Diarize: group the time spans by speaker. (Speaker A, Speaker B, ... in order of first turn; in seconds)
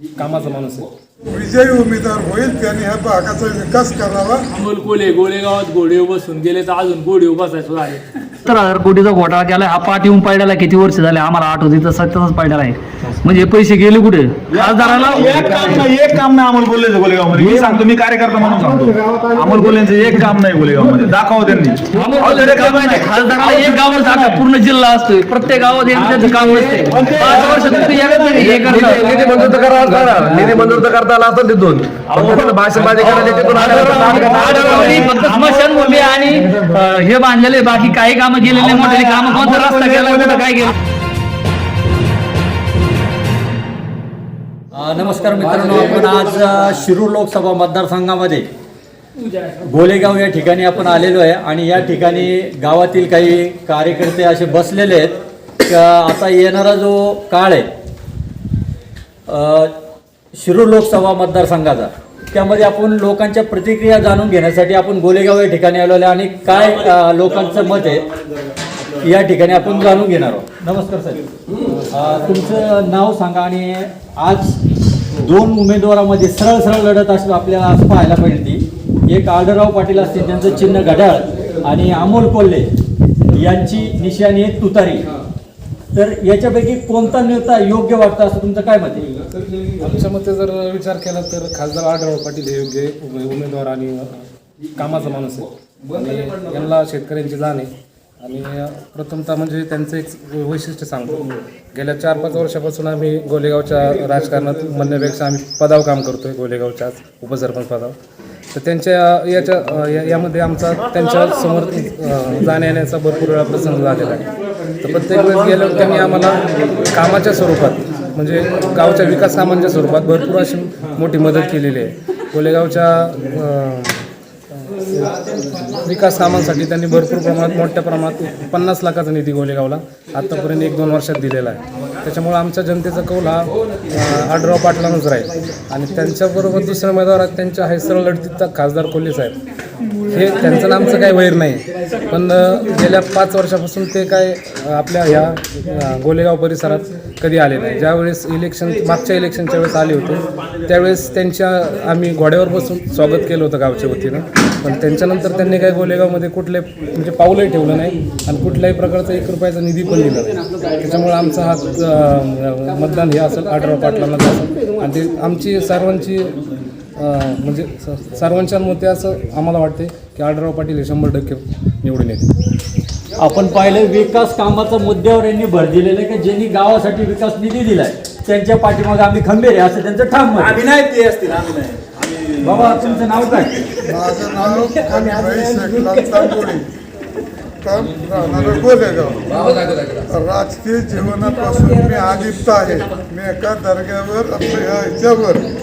Speaker A: 0.2-0.9, 89.8-94.2, 94.8-108.0, 108.5-114.3, 114.8-124.0, 125.8-139.4, 140.1-166.3, 167.0-172.3
Speaker B: 1.3-4.4, 183.8-186.7, 187.6-189.6, 190.1-195.4
Speaker C: 4.5-8.0
Speaker D: 8.5-15.8, 21.9-30.5, 33.0-40.8
Speaker E: 14.5-24.3, 26.9-29.0, 32.1-36.2, 38.6-40.5, 66.5-68.1, 69.6-70.0, 180.4-183.7
Speaker F: 26.1-26.8, 44.8-48.5, 49.6-57.7, 59.3-59.7, 60.4-68.1, 69.0-71.2, 71.8-74.6, 75.2-82.7, 83.3-85.1, 85.9-89.1, 173.2-180.6, 182.4-183.6
Speaker G: 28.3-35.1, 189.4-190.0